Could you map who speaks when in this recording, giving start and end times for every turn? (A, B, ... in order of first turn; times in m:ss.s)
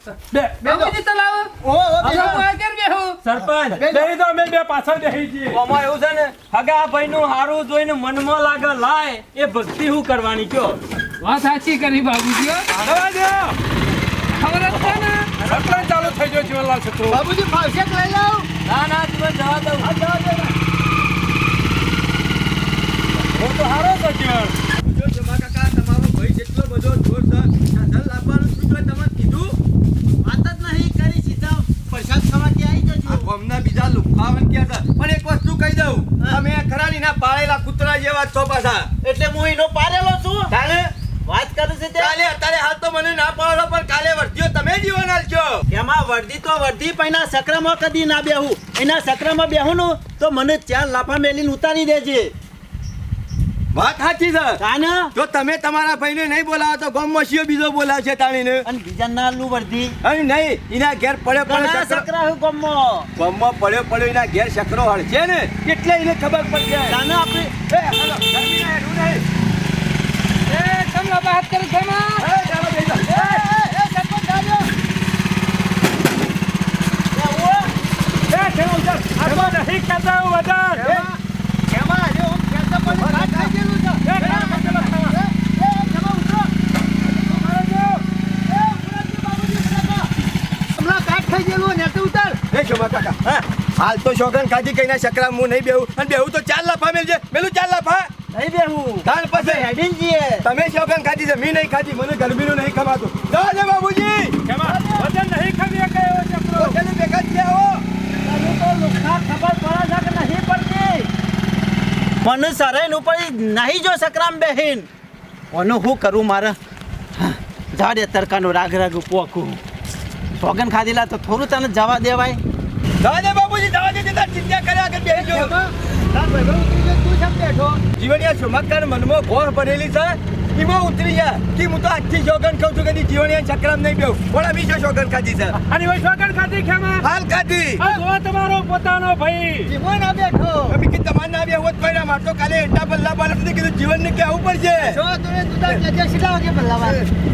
0:00.3-0:00.6 A
0:00.6-0:00.9 B
0:00.6-0:01.5 C
0:01.6-0:02.4 B
0:02.0-0:03.2 C
0:02.0-0:02.3 D
0:03.2-0:03.8 D
0:03.7-0:04.1 B
0:03.9-0:05.6 A
0:05.5-0:10.8 D
0:11.2-0:12.7 C
0:12.7-0:13.6 A
0:14.3-0:15.4 C
0:15.4-0:17.2 A
0:17.1-0:18.5 B
0:18.6-0:19.9 D
0:19.8-0:20.4 B
0:20.1-0:20.5 E
0:23.3-0:24.5 A
0:24.7-0:29.6 E
0:30.2-0:33.3 F
0:33.0-0:38.9 E
0:39.0-0:40.5 F
0:40.5-0:40.9 E
0:41.2-0:42.2 F
0:42.0-0:45.6 E
0:45.7-0:52.3 F
0:53.7-0:54.6 E
0:54.6-0:55.1 F
0:55.1-0:58.6 E
0:58.6-1:00.0 F
1:00.0-1:02.1 E
1:01.4-1:03.1 F
1:03.1-1:07.0 E
1:06.9-1:07.5 F
1:07.7-1:09.2 E
1:10.5-1:12.2 C
1:12.2-1:13.4 E
1:13.1-1:14.7 B
1:17.1-1:17.7 F
1:18.3-1:20.9 A
1:19.2-1:19.6 B
1:20.7-1:21.1 E
1:20.8-1:21.2 B
1:21.7-1:26.5 B
1:22.9-1:23.5 E
1:24.0-1:25.1 A
1:24.2-1:24.5 E
1:27.0-1:30.1 B
1:30.8-1:32.4 B
1:32.5-1:38.1 E
1:38.3-1:40.4 F
1:39.0-1:39.7 E
1:40.4-1:44.4 E
1:44.4-1:46.8 A
1:44.6-1:45.1 F
1:46.5-1:47.8 E
1:48.2-1:51.1 F
1:52.2-1:54.9 F
1:55.5-1:56.6 F
1:57.2-1:59.6 F
2:00.4-2:02.4 F
2:03.0-2:05.5 E
2:05.1-2:07.8 B
2:08.0-2:15.6 E
2:15.6-2:17.1 A
2:17.0-2:17.8 E
2:17.8-2:19.7 A
2:19.7-2:20.8 B
2:20.7-2:25.0 E
2:24.7-2:27.0 B
2:26.8-2:27.1 E